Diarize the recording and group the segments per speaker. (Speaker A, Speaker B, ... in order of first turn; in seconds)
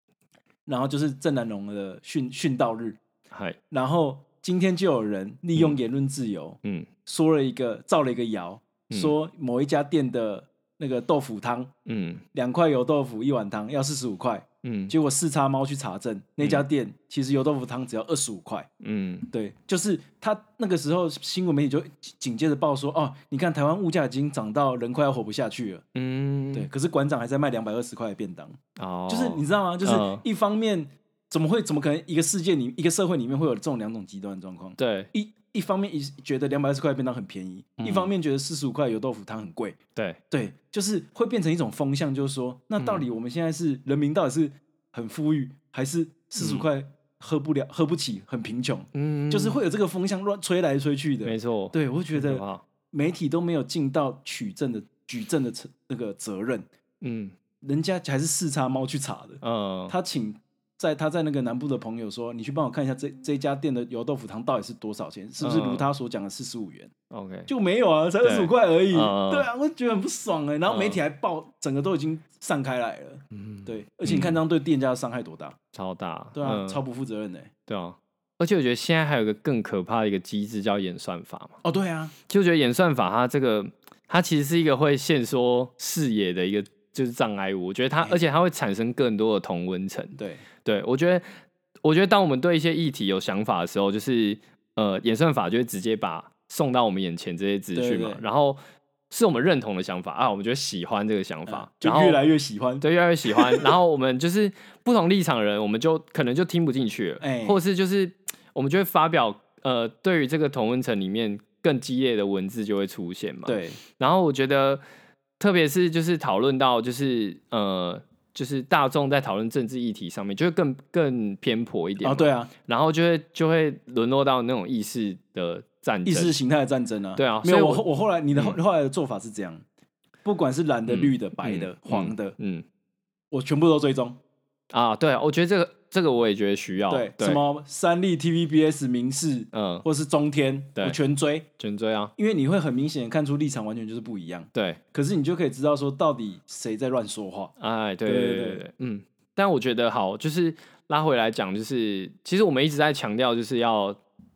Speaker A: 0.7-3.0, 3.7-11.7, 12.3-18.7, 19.3-25.8, 26.5-39.8, 40.3-56.7, 57.6-66.9, 67.5-75.6, 76.3-77.5, 81.6-82.1, 90.2-90.4, 97.7-98.2, 101.5-103.7, 107.2-107.6, 113.5-113.8, 122.0-122.5, 126.0-129.6, 130.2-132.3, 133.3-134.2, 136.9-141.5, 142.2-147.5, 148.0-148.6
Speaker B: 3.3-3.6, 6.6-6.9, 8.9-9.1, 11.8-12.2, 14.6-14.9, 18.8-19.3, 25.9-26.7, 28.8-30.2, 34.8-35.1, 37.8-38.1, 42.8-43.0, 46.4-46.7, 48.9-49.6, 51.2-52.6, 57.0-57.3, 59.4-59.9, 65.4-65.9, 67.1-67.5, 68.2-69.5, 70.7-71.0, 73.3-74.4, 75.7-76.8, 77.7-81.5, 82.3-91.3, 91.8-98.6, 99.1-102.2, 102.8-114.8, 115.4-126.3, 127.2-128.6, 130.9-132.6, 134.7-137.4, 139.5-139.8, 141.6-142.1, 144.5-144.8, 147.6-154.0